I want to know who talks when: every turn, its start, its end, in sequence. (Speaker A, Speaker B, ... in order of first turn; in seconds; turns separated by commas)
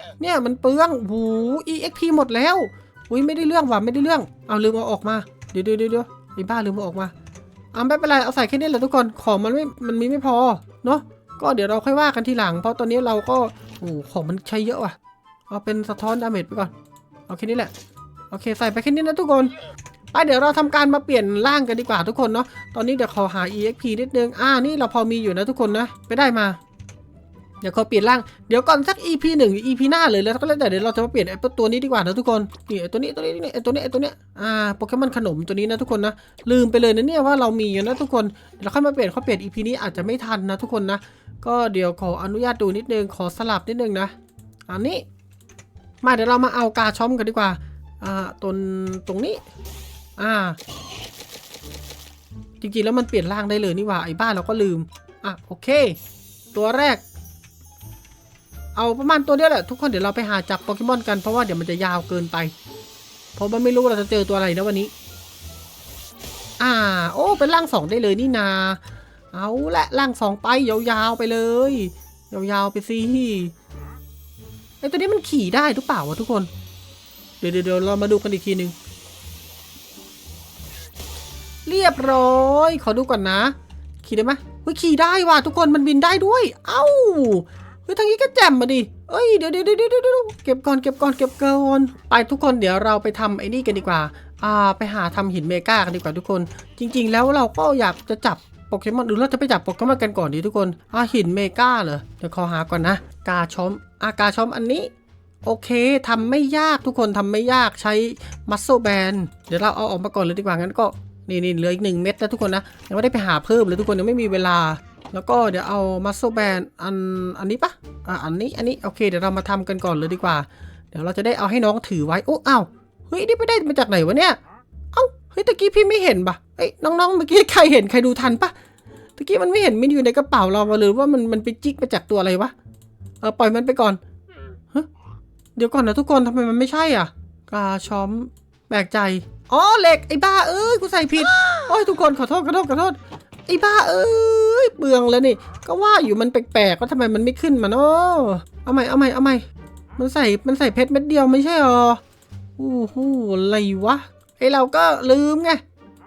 Speaker A: 0.2-7.1, Speaker A: 7.7-15.0, Speaker A: 15.5-16.7, Speaker A: 17.3-17.7, Speaker A: 18.3-19.5, Speaker A: 20.1-26.6, Speaker A: 27.6-44.1, Speaker A: 44.7-45.0, Speaker A: 46.0-49.4, Speaker A: 50.2-50.6, Speaker A: 52.6-56.0, Speaker A: 56.5-57.0, Speaker A: 58.8-62.5, Speaker A: 63.4-64.9, Speaker A: 66.6-68.8, Speaker A: 69.3-73.5, Speaker A: 74.8-76.5, Speaker A: 77.4-78.7, Speaker A: 81.7-104.9, Speaker A: 105.4-124.4, Speaker A: 124.9-128.6, Speaker A: 129.2-132.5, Speaker A: 133.2-134.0, Speaker A: 135.6-149.4, Speaker A: 150.0-152.0, Speaker A: 152.6-155.6